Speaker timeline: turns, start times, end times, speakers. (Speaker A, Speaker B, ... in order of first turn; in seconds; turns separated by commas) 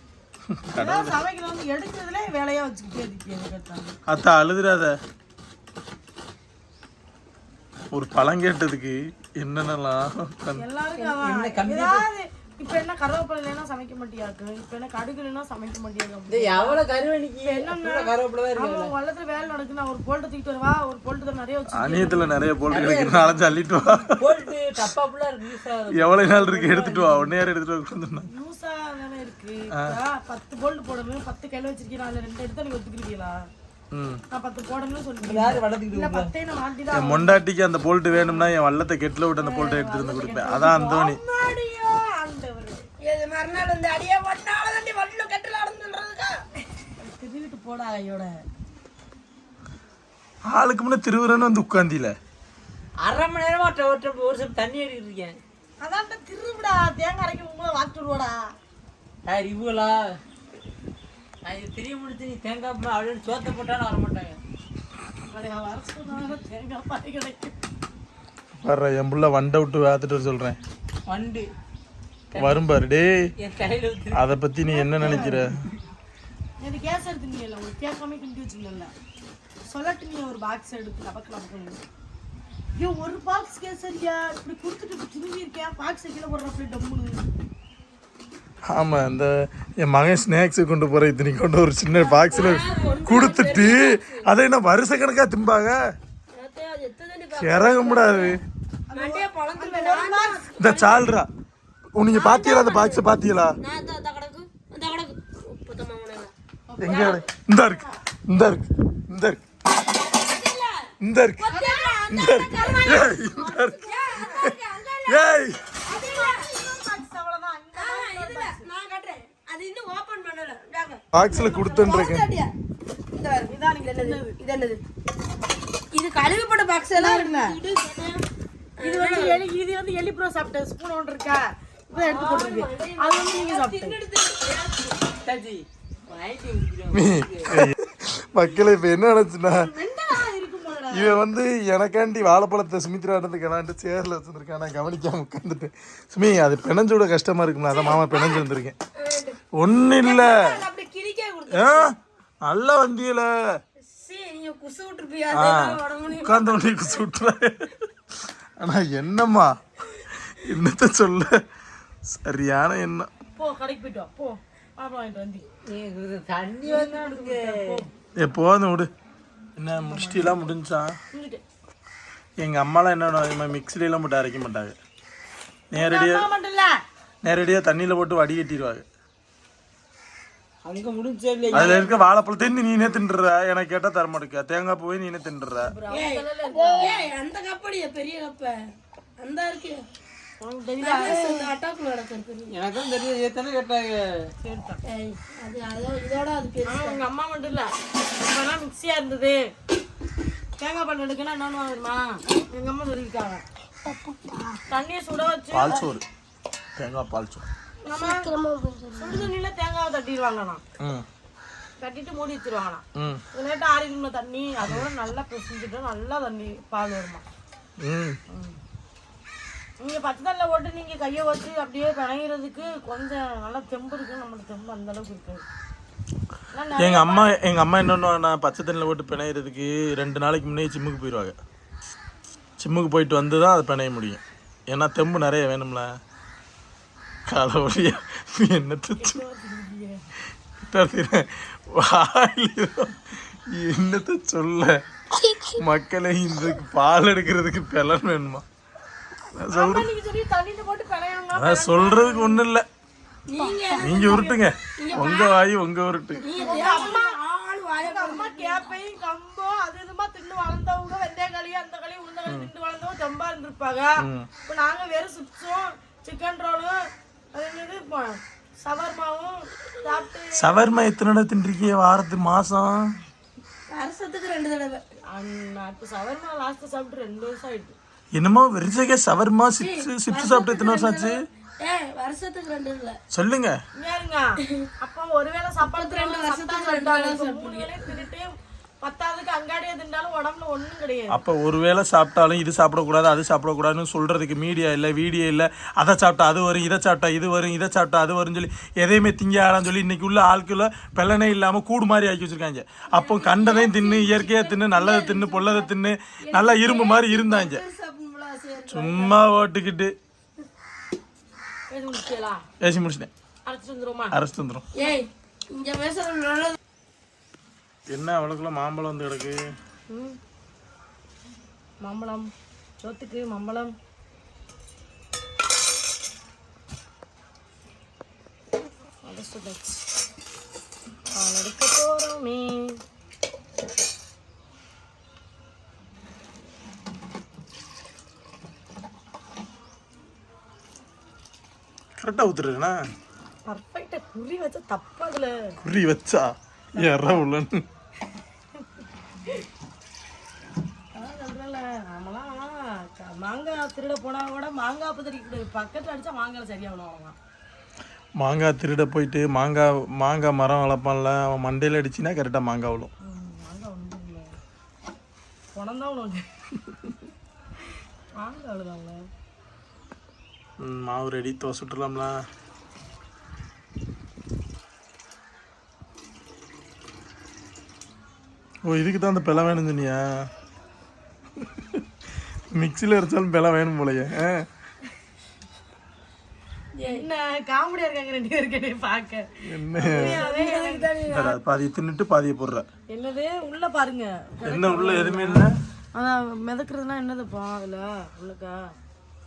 Speaker A: 0.5-1.1, Speaker B: 0.8-4.0, Speaker A: 4.1-5.0, Speaker A: 7.9-10.6, Speaker B: 10.6-16.8, Speaker C: 11.0-12.1, Speaker C: 16.3-18.9, Speaker B: 17.4-22.4, Speaker A: 21.7-24.2, Speaker C: 22.7-23.4, Speaker C: 24.1-27.4, Speaker A: 25.9-28.3, Speaker B: 28.3-33.4, Speaker A: 33.9-34.2, Speaker B: 34.3-37.4, Speaker C: 35.2-36.3, Speaker A: 36.9-41.2, Speaker B: 38.1-38.5, Speaker B: 39.4-42.9, Speaker D: 43.0-46.4, Speaker B: 47.0-48.3, Speaker A: 50.5-52.1, Speaker C: 53.0-55.4, Speaker B: 55.8-58.5, Speaker C: 59.2-60.0, Speaker C: 61.5-64.4, Speaker B: 65.3-67.6, Speaker A: 68.6-70.6, Speaker C: 71.1-71.5, Speaker C: 72.3-72.6, Speaker A: 72.3-73.2, Speaker C: 73.4-74.2, Speaker A: 74.1-75.5, Speaker B: 74.7-75.5, Speaker C: 75.0-75.5, Speaker B: 76.6-78.9, Speaker B: 79.7-81.8, Speaker B: 82.8-87.3, Speaker A: 88.7-95.8, Speaker B: 92.0-93.0, Speaker D: 92.3-94.3, Speaker D: 96.3-98.4, Speaker A: 97.3-98.4, Speaker B: 98.9-100.4, Speaker D: 98.9-101.1, Speaker A: 100.6-101.3, Speaker A: 102.0-103.5, Speaker D: 102.1-103.1, Speaker D: 103.6-107.2, Speaker B: 106.7-107.9, Speaker A: 106.8-109.4, Speaker D: 110.0-110.9, Speaker A: 111.0-111.6, Speaker D: 111.4-116.5, Speaker B: 111.5-113.7, Speaker A: 112.1-114.5, Speaker A: 115.0-115.7, Speaker B: 115.9-118.7, Speaker D: 117.8-121.0, Speaker A: 121.1-122.3, Speaker B: 121.2-122.0, Speaker D: 121.7-122.5, Speaker D: 123.1-124.8, Speaker B: 123.5-124.4, Speaker D: 125.9-128.2, Speaker B: 126.9-127.6, Speaker D: 128.8-129.4, Speaker B: 128.8-134.0, Speaker D: 131.9-135.1, Speaker C: 135.2-137.5, Speaker A: 136.9-139.7, Speaker B: 139.5-141.2, Speaker A: 140.9-148.8, Speaker D: 147.7-148.5, Speaker D: 149.0-149.4, Speaker A: 149.6-150.7, Speaker D: 150.0-151.9, Speaker A: 151.5-153.3, Speaker D: 153.8-156.8, Speaker A: 155.3-157.8, Speaker A: 158.6-161.4, Speaker A: 162.1-163.1, Speaker B: 163.3-165.4, Speaker C: 165.7-167.9, Speaker B: 166.7-167.9, Speaker A: 168.2-168.9, Speaker A: 169.6-170.9, Speaker B: 169.8-170.5, Speaker B: 171.1-171.4, Speaker A: 172.4-174.8, Speaker A: 175.7-176.3, Speaker B: 175.7-176.7, Speaker A: 177.2-178.8, Speaker C: 180.7-182.0, Speaker A: 181.5-185.7, Speaker B: 185.6-187.1, Speaker D: 185.9-188.6, Speaker D: 189.2-189.8, Speaker B: 190.4-191.5, Speaker D: 190.8-192.6, Speaker C: 192.5-194.8, Speaker D: 194.8-197.0, Speaker B: 196.7-199.4, Speaker B: 200.6-203.4, Speaker D: 203.8-204.6, Speaker B: 204.7-205.8, Speaker A: 205.5-206.0, Speaker A: 206.8-207.5, Speaker B: 207.8-208.3, Speaker D: 208.0-209.3, Speaker B: 209.0-210.6, Speaker A: 210.8-211.1, Speaker B: 211.8-212.8, Speaker A: 213.0-213.2, Speaker B: 213.3-217.2, Speaker A: 217.8-218.2, Speaker B: 218.3-218.6, Speaker B: 219.8-225.4, Speaker B: 226.5-227.3, Speaker A: 226.8-231.4, Speaker A: 232.6-235.9, Speaker A: 237.3-239.2, Speaker B: 239.0-240.1, Speaker A: 240.6-244.8, Speaker D: 245.2-245.6, Speaker A: 245.6-248.4, Speaker A: 249.3-249.9, Speaker B: 249.5-252.4, Speaker A: 251.3-252.7, Speaker D: 253.3-255.4, Speaker B: 253.4-254.4, Speaker A: 253.8-256.3, Speaker D: 256.2-258.7, Speaker B: 256.4-257.2, Speaker B: 257.8-266.8, Speaker A: 264.0-264.3, Speaker B: 267.3-270.7, Speaker A: 270.4-272.9, Speaker D: 273.7-274.8, Speaker B: 275.1-277.8, Speaker A: 278.1-281.2, Speaker D: 279.6-283.0, Speaker A: 283.1-283.6, Speaker B: 283.8-284.3, Speaker B: 284.8-288.3, Speaker D: 285.6-288.1, Speaker B: 288.8-291.2, Speaker A: 291.1-307.6, Speaker D: 302.9-305.7, Speaker D: 306.2-309.2, Speaker A: 308.7-309.9, Speaker B: 311.7-312.4, Speaker A: 312.6-313.1, Speaker B: 313.5-314.2, Speaker A: 314.1-314.6, Speaker D: 314.8-316.6, Speaker A: 317.9-319.4, Speaker B: 319.9-320.2, Speaker B: 321.8-322.3, Speaker B: 322.8-323.7, Speaker B: 329.0-329.9, Speaker B: 331.1-332.8, Speaker A: 342.0-342.8, Speaker B: 343.5-345.6, Speaker A: 345.6-347.6, Speaker B: 346.8-347.2, Speaker B: 351.0-357.2, Speaker A: 358.2-362.9, Speaker B: 363.0-364.3, Speaker B: 365.6-366.2, Speaker B: 368.2-369.0, Speaker A: 370.6-372.2, Speaker A: 378.6-380.3, Speaker A: 381.4-381.8, Speaker A: 382.5-384.5, Speaker D: 386.8-387.0, Speaker B: 386.9-390.9, Speaker A: 389.4-390.2, Speaker D: 389.8-391.4, Speaker A: 391.1-392.7, Speaker B: 392.9-398.7, Speaker A: 394.4-395.6